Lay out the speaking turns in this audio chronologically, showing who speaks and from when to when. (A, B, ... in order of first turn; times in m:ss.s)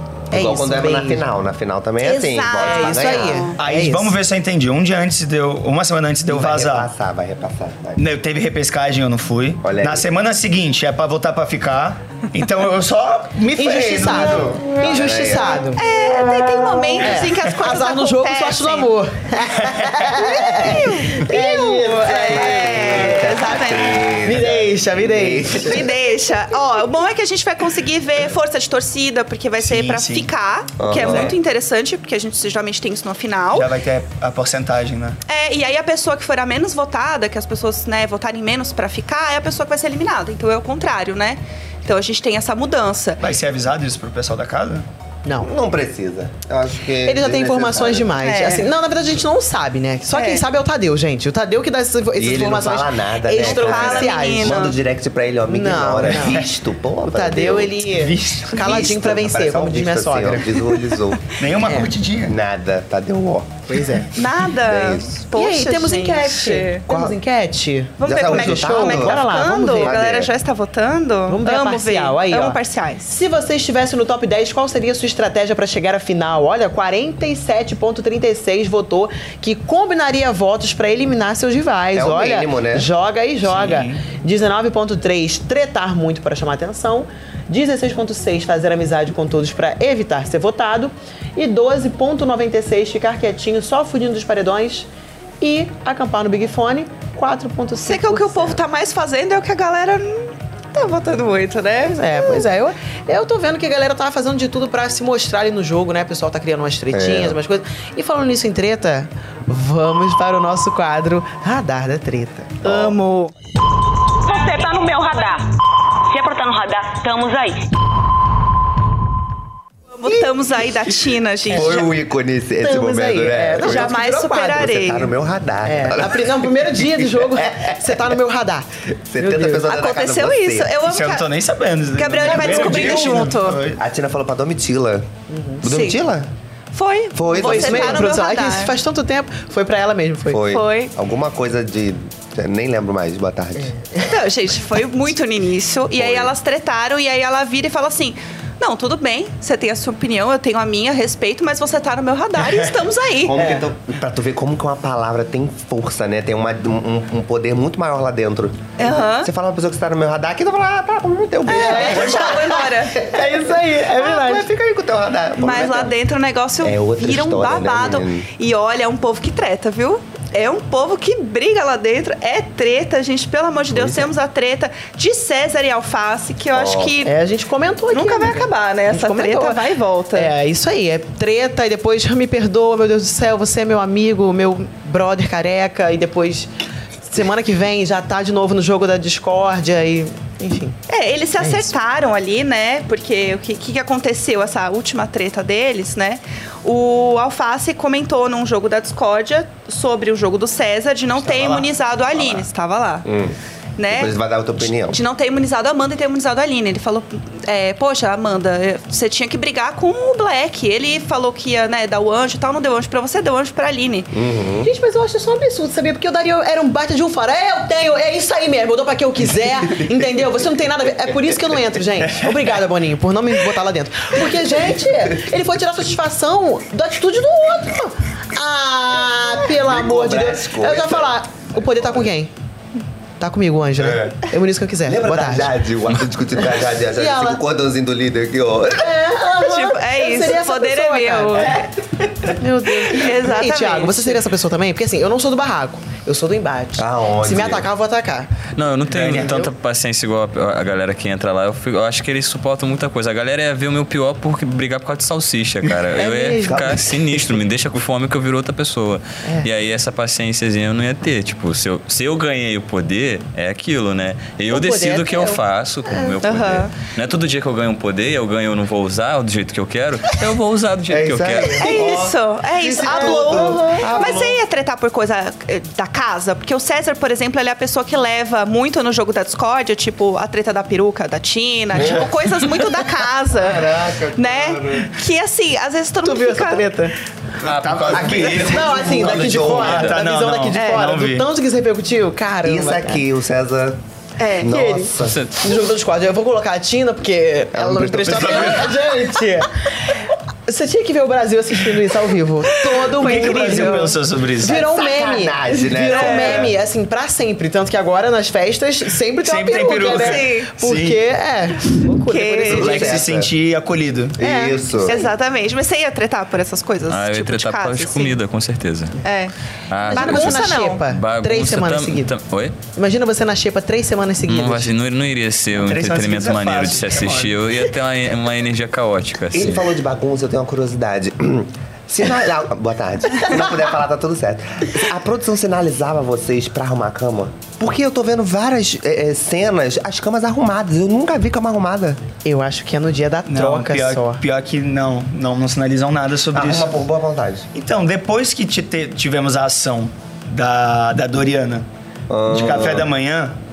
0:00.3-0:01.2 A
0:00.3-0:03.5 B
0:02.0-0:03.6 C
0:02.6-0:04.2 A
0:03.6-0:06.9 D
0:06.3-0:08.0 B
0:08.0-0:14.7 D
0:09.6-0:10.0 B
0:13.5-0:15.8 A
0:13.9-0:15.6 B
0:15.8-0:18.9 C
0:17.0-0:23.2 A
0:20.3-0:24.1 C
0:22.0-0:25.9 B
0:24.2-0:25.8 A
0:25.6-0:33.7 C
0:29.6-0:30.3 D
0:30.8-0:31.4 B
0:33.5-0:35.2 D
0:35.3-0:43.2 C
0:43.2-0:44.8 D
0:45.4-0:48.1 B
0:47.0-0:54.6 A
0:48.2-0:48.7 C
0:50.1-0:50.4 C
0:52.1-0:57.8 B
0:53.4-0:54.8 C
0:55.5-0:56.4 A
0:57.0-1:00.8 A
0:57.9-0:58.9 D
0:58.6-1:01.2 B
1:01.4-1:02.4 D
1:01.6-1:01.9 A
1:02.2-1:05.2 B
1:03.7-1:04.1 A
1:04.1-1:06.8 C
1:05.3-1:10.0 A
1:06.9-1:07.2 B
1:08.0-1:13.1 C
1:08.0-1:10.3 B
1:11.3-1:34.9 A
1:21.9-1:22.9 B
1:23.4-1:24.0 D
1:35.4-1:38.6 A
1:37.8-1:42.4 C
1:41.9-1:52.6 A
1:46.9-1:47.4 B
1:52.6-1:53.0 B
1:52.6-1:53.3 C
1:54.2-1:55.5 E
1:56.1-1:57.7 E
1:59.9-2:01.9 C
2:01.5-2:07.9 B
2:01.5-2:01.8 A
2:02.6-2:05.0 A
2:03.6-2:05.1 C
2:05.6-2:09.6 A
2:08.9-2:10.8 B
2:09.6-2:11.3 C
2:10.8-2:13.8 D
2:11.9-2:13.6 C
2:12.3-2:15.1 B
2:15.3-2:15.6 A
2:15.6-2:16.3 B
2:15.6-2:16.0 C
2:16.7-2:18.7 C
2:17.1-2:18.2 B
2:17.3-2:20.4 A
2:20.3-2:23.8 B
2:20.4-2:20.9 C
2:23.6-2:24.0 A
2:24.1-2:33.4 C
2:25.9-2:26.3 B
2:33.2-2:46.0 B
2:33.3-2:33.6 A
2:38.8-2:39.3 C
2:41.5-2:44.4 A
2:41.5-2:43.1 C
2:45.4-2:57.1 C
2:46.6-2:48.3 B
2:53.7-2:54.1 B
2:56.5-2:57.0 B
2:57.0-3:06.5 A
2:57.9-3:00.3 C
3:07.0-3:10.8 A
3:10.9-3:23.1 C
3:11.4-3:11.7 A
3:21.2-3:22.4 D
3:23.0-3:25.0 B
3:23.8-3:34.1 C
3:34.1-3:34.7 B
3:34.6-3:52.3 A
3:42.0-3:42.5 D
3:49.4-3:52.0 B
3:53.2-3:55.5 A
3:53.8-3:54.3 B
3:54.8-3:59.0 B
3:56.9-3:57.4 A
3:58.8-4:01.6 A
3:59.4-4:01.7 C
4:02.2-4:08.3 A
4:02.8-4:04.2 C
4:06.8-4:07.7 B
4:08.6-4:31.8 F
4:08.9-4:09.4 D
4:09.0-4:09.5 A
4:16.0-4:16.8 A
4:16.4-4:17.4 B
4:24.5-4:25.4 A
4:25.9-4:26.2 A
4:26.2-4:26.7 C
4:30.9-4:34.4 B
4:31.5-4:46.7 C
4:32.8-4:34.0 A
4:41.7-4:42.1 B
4:43.3-4:44.9 B
4:46.0-4:47.0 A
4:47.4-4:51.3 D
4:47.4-4:48.5 F
4:47.9-4:49.9 B
4:48.4-4:53.0 A
4:50.5-4:50.8 C
4:52.4-4:53.8 B
4:54.2-4:54.6 C
4:54.4-4:55.2 B
4:54.4-5:12.9 A
4:55.0-4:55.3 F
4:57.5-4:58.8 B
5:02.7-5:04.0 C
5:02.9-5:04.6 D
5:04.4-5:06.5 B
5:05.8-5:06.5 C
5:09.2-5:11.0 D
5:09.7-5:10.5 C
5:12.0-5:12.9 C
5:12.5-5:13.3 B
5:12.5-5:14.2 D
5:14.2-5:15.1 B
5:14.2-5:14.6 A
5:14.8-5:18.2 C
5:16.9-5:19.0 F
5:19.0-5:19.3 C
5:19.7-5:22.5 F
5:19.9-5:22.1 A
5:19.9-5:20.8 C
5:22.8-5:24.7 A
5:24.3-5:29.7 F
5:25.6-5:27.4 D
5:29.3-5:42.0 B
5:42.2-5:44.2 A
5:43.3-5:46.8 D
5:46.3-5:47.5 B
5:47.5-5:51.6 D
5:52.1-5:52.9 B
5:52.3-5:53.4 D